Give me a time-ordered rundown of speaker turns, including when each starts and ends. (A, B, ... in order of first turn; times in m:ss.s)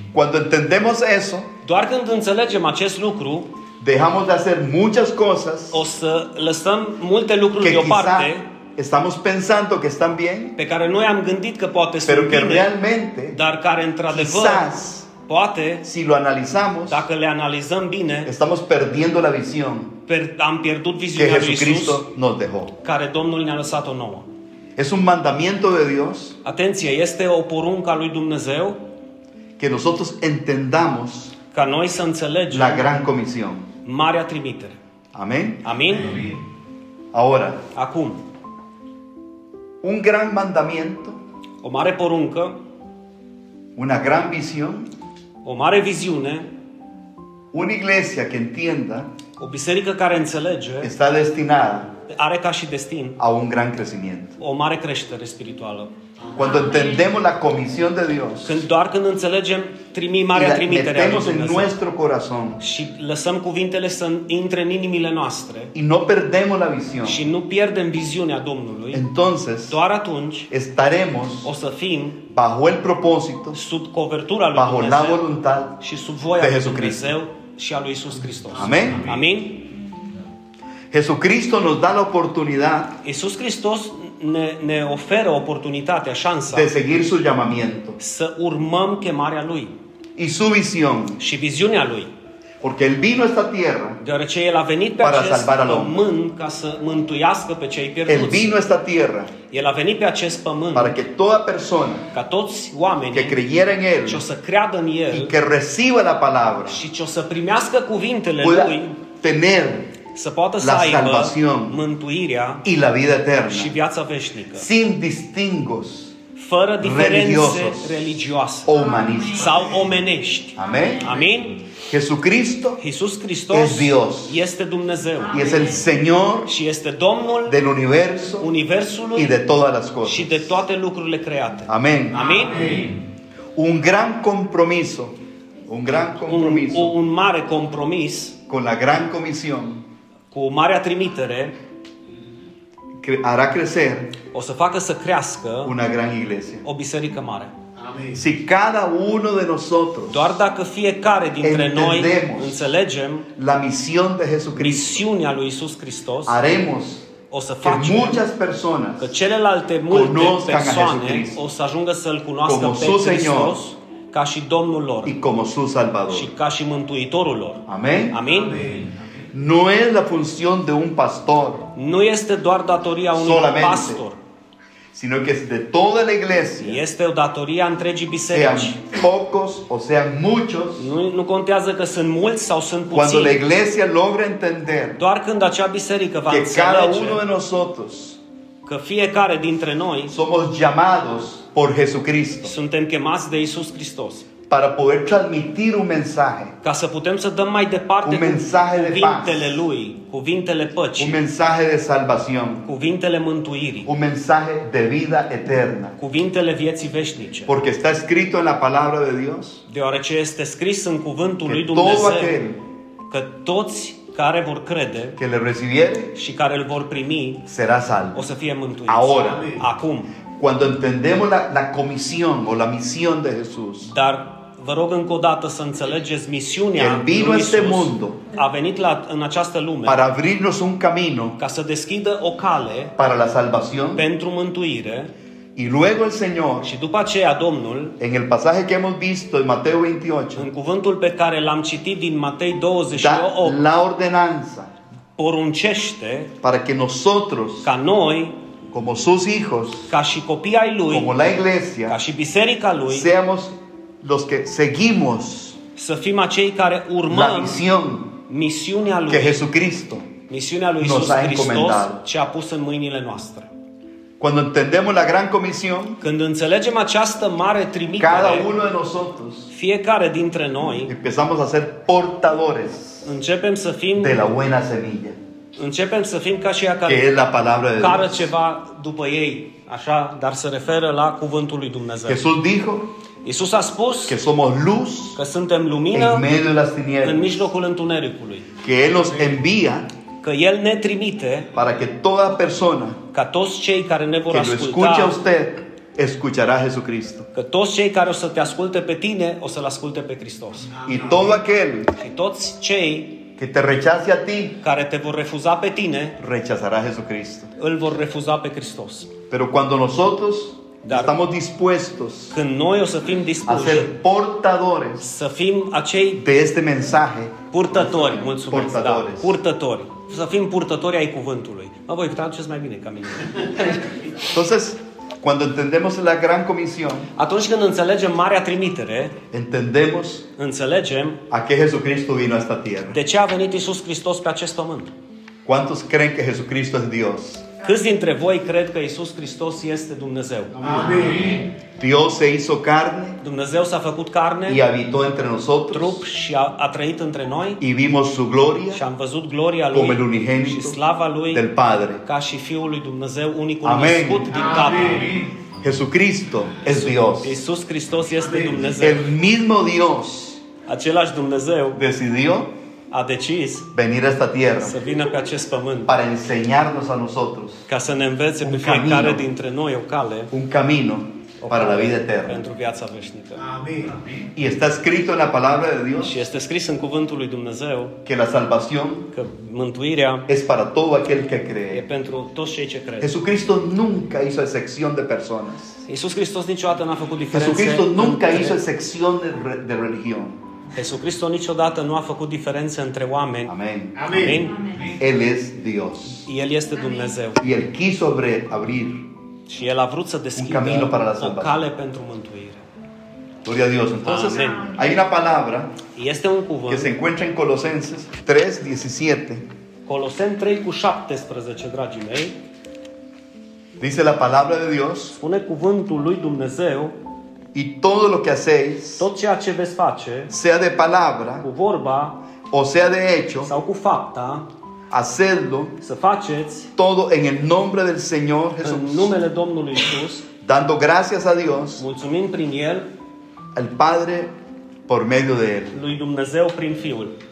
0:00.1-0:01.5 A
0:01.6-0:03.5 B
0:03.8-0:05.8 A
0:05.7-0:08.4 B
0:07.6-0:10.5 A
0:10.6-0:12.7 B
0:12.0-0:13.4 A
0:13.3-0:14.7 B
0:14.1-0:15.1 A
0:15.2-0:15.8 B
0:15.8-0:17.0 A
0:16.9-0:18.3 B
0:18.2-0:20.0 A
0:20.1-0:22.0 B
0:21.1-0:22.7 A
0:22.8-0:24.3 B
0:24.8-0:26.4 A
0:26.4-0:28.8 B
0:29.6-0:31.4 A
0:31.5-0:32.9 B
0:32.5-0:33.7 A
0:33.8-0:34.8 B
0:35.1-0:35.7 A
0:35.6-0:36.3 B
0:37.1-0:37.6 A
0:37.7-0:38.2 B
0:39.8-0:41.2 A
0:41.6-0:42.6 B
0:43.8-0:44.9 A
0:45.4-0:46.5 B
0:47.5-0:49.1 A
0:49.4-0:50.9 B
0:50.8-0:52.0 A
0:52.1-0:53.2 B
0:53.2-0:54.4 A
0:54.4-0:55.9 B
0:56.4-0:58.6 A
0:58.4-1:01.7 B
1:00.3-1:02.6 A
1:02.6-1:05.7 B
1:05.7-1:07.2 A
1:07.0-1:09.0 B
1:08.9-1:09.8 A
1:09.7-1:10.5 B
1:10.5-1:11.5 A
1:11.4-1:12.2 B
1:12.2-1:13.6 A
1:13.5-1:15.2 B
1:14.5-1:15.8 A
1:15.8-1:19.7 B
1:16.4-1:17.2 A
1:18.5-1:19.1 A
1:20.9-1:23.0 A
1:23.0-1:26.7 B
1:26.5-1:28.0 A
1:28.0-1:29.7 B
1:30.2-1:31.2 A
1:31.2-1:32.1 B
1:32.6-1:34.0 A
1:34.0-1:38.5 B
1:35.0-1:36.0 A
1:38.1-1:39.3 A
1:39.5-1:41.0 B
1:40.7-1:42.1 A
1:42.1-1:43.4 B
1:43.1-1:44.2 A
1:44.0-1:45.4 B
1:45.1-1:46.8 A
1:46.7-1:49.0 B
1:48.4-1:50.0 A
1:50.1-1:52.6 B
1:50.6-1:51.8 A
1:52.6-1:53.7 A
1:53.5-1:54.7 B
1:54.5-1:56.1 A
1:56.4-1:58.7 B
1:56.8-1:58.0 A
1:58.6-1:59.7 A
1:59.3-2:01.7 B
2:00.5-2:01.1 A
2:01.8-2:02.8 A
2:02.8-2:05.6 B
2:03.5-2:04.4 A
2:05.3-2:06.5 A
2:06.4-2:07.6 B
2:07.4-2:08.5 A
2:08.4-2:09.4 B
2:09.1-2:10.6 A
2:10.0-2:12.8 B
2:11.7-2:12.3 A
2:12.2-2:12.9 C
2:13.5-2:15.1 A
2:15.7-2:16.9 A
2:16.3-2:18.4 B
2:18.5-2:19.8 A
2:20.3-2:21.6 B
2:23.0-2:24.2 A
2:24.3-2:25.8 B
2:25.6-2:26.6 A
2:26.6-2:27.5 B
2:27.8-2:28.2 C
2:28.1-2:30.3 A
2:30.1-2:33.3 B
2:31.4-2:32.6 A
2:33.4-2:35.0 A
2:34.6-2:36.4 B
2:36.2-2:37.1 A
2:37.3-2:38.2 B
2:37.6-2:39.1 A
2:39.0-2:45.1 B
2:39.9-2:41.4 A
2:42.4-2:43.6 A
2:45.0-2:46.3 A
2:46.1-2:48.7 B
2:47.7-2:48.2 A
2:48.2-2:48.9 C
2:49.3-2:51.7 A
2:51.7-2:54.2 B
2:53.1-2:54.0 A
2:54.9-2:56.8 A
2:56.6-2:58.8 B
2:58.3-3:00.9 A
3:00.8-3:03.4 B
3:02.9-3:05.0 A
3:05.0-3:07.2 B
3:06.3-3:08.2 A
3:08.6-3:10.2 B
3:10.1-3:12.5 A
3:12.4-3:14.2 B
3:14.5-3:16.5 A
3:16.6-3:21.2 B
3:18.0-3:19.6 A
3:21.0-3:22.6 A
3:22.6-3:23.9 B
3:23.8-3:26.0 A
3:26.0-3:27.5 B
3:27.5-3:29.6 A
3:29.7-3:32.4 B
3:31.4-3:32.6 A
3:33.1-3:35.2 B
3:35.2-3:36.1 A
3:36.1-3:37.5 B
3:37.5-3:38.2 A
3:38.1-3:40.1 B
3:38.9-3:39.5 A
3:39.1-3:39.6 C
3:40.4-3:43.9 A
3:43.8-3:50.0 B
3:46.8-3:48.2 A
3:49.8-3:51.4 A
3:51.4-3:52.9 B
3:53.0-3:54.0 A
3:53.9-3:55.1 B
3:55.6-3:56.7 A
3:56.6-3:58.0 B
3:58.0-4:00.5 A
4:00.4-4:03.6 B
4:02.9-4:04.7 A
4:05.2-4:06.4 B
4:06.4-4:07.7 A
4:07.6-4:08.4 B
4:08.7-4:09.9 A
4:09.9-4:11.3 B
4:10.9-4:12.0 A
4:11.8-4:13.1 B
4:12.9-4:15.6 A
4:15.8-4:17.6 B
4:17.1-4:18.2 A
4:18.3-4:19.4 B
4:19.1-4:20.1 A
4:20.3-4:23.5 B
4:20.8-4:22.0 A
4:24.2-4:26.0 A
4:26.0-4:28.5 B
4:28.0-4:29.5 A
4:29.5-4:30.9 B
4:30.8-4:33.1 A
4:33.0-4:34.3 B
4:34.0-4:35.2 A
4:35.6-4:37.1 B
4:36.8-4:38.2 A
4:37.8-4:42.2 B
4:42.1-4:42.9 A
4:43.2-4:44.2 B
4:44.1-4:45.2 A
4:45.1-4:46.2 B
4:45.9-4:47.4 A
4:47.0-4:48.5 B
4:48.6-4:49.9 A
4:50.2-4:51.5 B
4:51.5-4:53.0 A
4:53.1-4:55.2 B
4:54.3-4:57.3 A
4:57.3-5:00.7 B
5:00.7-5:01.4 C
5:00.8-5:01.9 A
5:02.0-5:03.3 B
5:03.4-5:04.6 A
5:04.6-5:06.2 B
5:06.2-5:07.5 A
5:07.6-5:09.1 B
5:09.3-5:12.4 A
5:10.8-5:11.2 B
5:12.3-5:13.9 B
5:13.4-5:15.0 A
5:15.0-5:16.2 B
5:16.2-5:19.4 A
5:17.5-5:24.0 B
5:24.3-5:27.1 A
5:27.2-5:29.2 B
5:29.3-5:30.3 A
5:30.4-5:31.2 B
5:31.3-5:33.0 A
5:32.9-5:34.9 B
5:35.4-5:37.5 A
5:37.6-5:41.0 B
5:40.6-5:41.5 C
5:41.8-5:43.2 A
5:43.2-5:44.6 B
5:44.4-5:46.0 A
5:45.7-5:47.6 B
5:47.6-5:48.8 A
5:48.7-5:51.5 B
5:49.7-5:50.8 A
5:51.3-5:52.0 A
5:52.0-5:55.2 B
5:53.6-5:54.4 A
5:54.3-5:55.2 C
5:55.6-5:57.4 A
5:56.6-5:59.1 B
5:58.2-5:58.7 C
5:58.8-6:00.4 A
6:00.7-6:01.8 B
6:01.7-6:02.5 A
6:02.9-6:03.7 B
6:03.7-6:04.8 A
6:04.6-6:05.9 B
6:05.8-6:07.6 A
6:07.7-6:10.3 B
6:08.4-6:09.2 A
6:10.3-6:12.4 A
6:11.4-6:13.4 B
6:13.4-6:14.0 C
6:14.3-6:16.2 A
6:16.0-6:18.0 B
6:18.0-6:19.1 A
6:19.1-6:20.3 B
6:20.3-6:21.8 A
6:21.7-6:23.1 B
6:23.0-6:25.8 A
6:25.8-6:28.6 B
6:27.3-6:30.4 A
6:30.7-6:33.5 B
6:33.5-6:34.1 A
6:34.0-6:34.5 C
6:34.1-6:34.8 B
6:34.9-6:36.2 A
6:36.2-6:37.4 B
6:37.4-6:39.0 A
6:39.5-6:42.6 B
6:40.4-6:41.6 A
6:43.4-6:45.8 A
6:44.0-6:44.8 B
6:45.9-6:47.0 B
6:46.7-6:49.4 A
6:49.8-6:52.4 B
6:53.8-6:55.2 A
6:55.1-6:57.0 B
6:57.5-6:59.1 A
6:59.0-7:00.3 B
7:00.3-7:01.4 A
7:01.4-7:02.2 B
7:02.5-7:03.5 A
7:03.4-7:04.5 B
7:04.9-7:05.8 A
7:05.8-7:06.7 B
7:06.8-7:09.1 A
7:08.6-7:10.3 B
7:10.4-7:11.8 A
7:11.8-7:12.9 B
7:13.5-7:14.3 A
7:14.9-7:15.8 A
7:15.7-7:17.2 B